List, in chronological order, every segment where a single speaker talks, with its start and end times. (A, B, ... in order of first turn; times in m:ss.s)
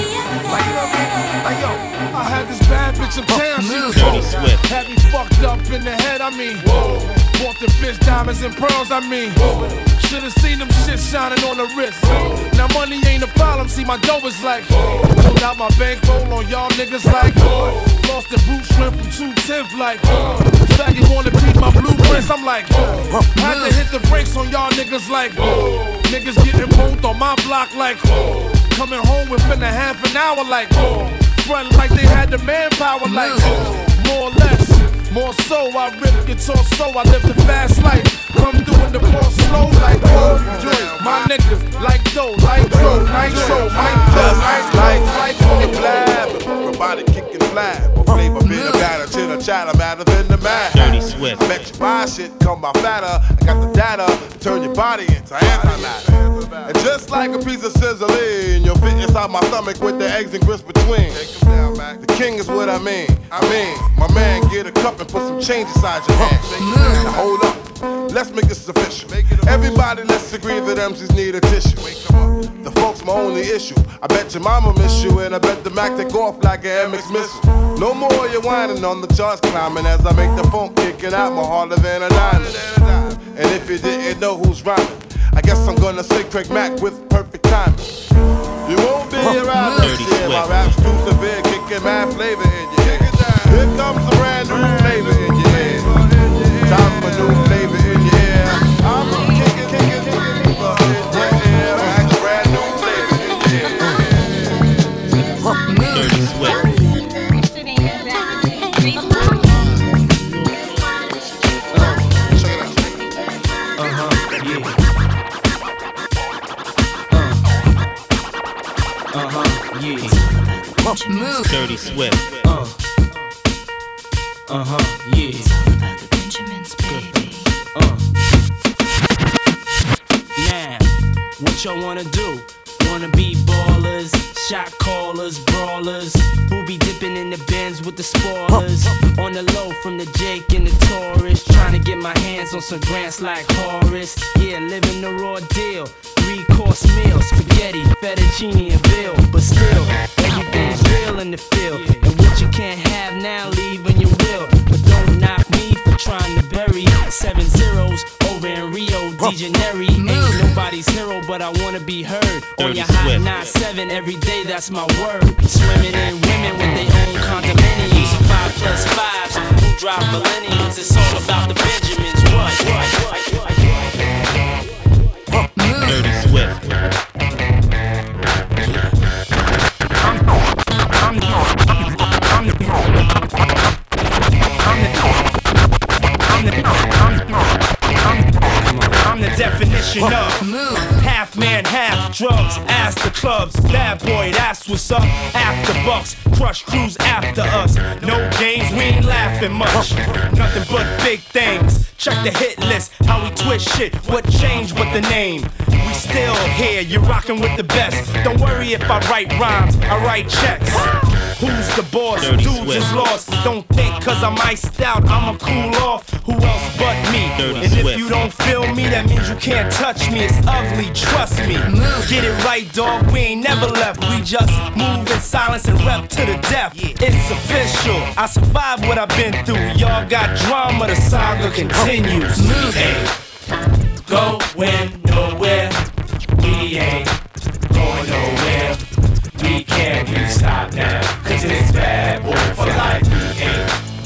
0:00.5-0:06.8 A
0:03.9-0:04.6 B
0:07.3-0:09.4 A
0:10.0-0:28.2 A
0:28.7-0:44.6 A
0:43.0-1:27.8 C
0:50.7-0:51.7 B
1:28.6-1:44.3 C
1:29.7-1:30.8 B
1:45.7-1:46.7 B
1:51.7-1:52.1 D
1:53.8-1:54.8 D
1:57.1-1:57.4 D
1:59.1-2:00.2 D
2:00.0-2:01.5 E
2:01.4-2:02.4 B
2:02.4-2:02.8 D
2:04.5-2:05.5 D
2:05.4-2:07.5 E
2:06.8-2:07.1 D
2:07.7-2:08.0 D
2:10.4-2:53.6 D
2:42.6-2:43.4 B
2:55.6-2:56.7 B
3:01.0-3:01.5 D
3:02.3-3:02.9 D
3:04.6-3:05.0 D
3:06.3-3:07.4 D
3:08.0-3:53.1 D
3:32.2-3:32.9 B
3:37.4-3:38.1 B
3:54.0-3:55.8 D
3:56.4-3:57.2 D
3:57.7-3:58.8 D
3:59.4-4:03.7 D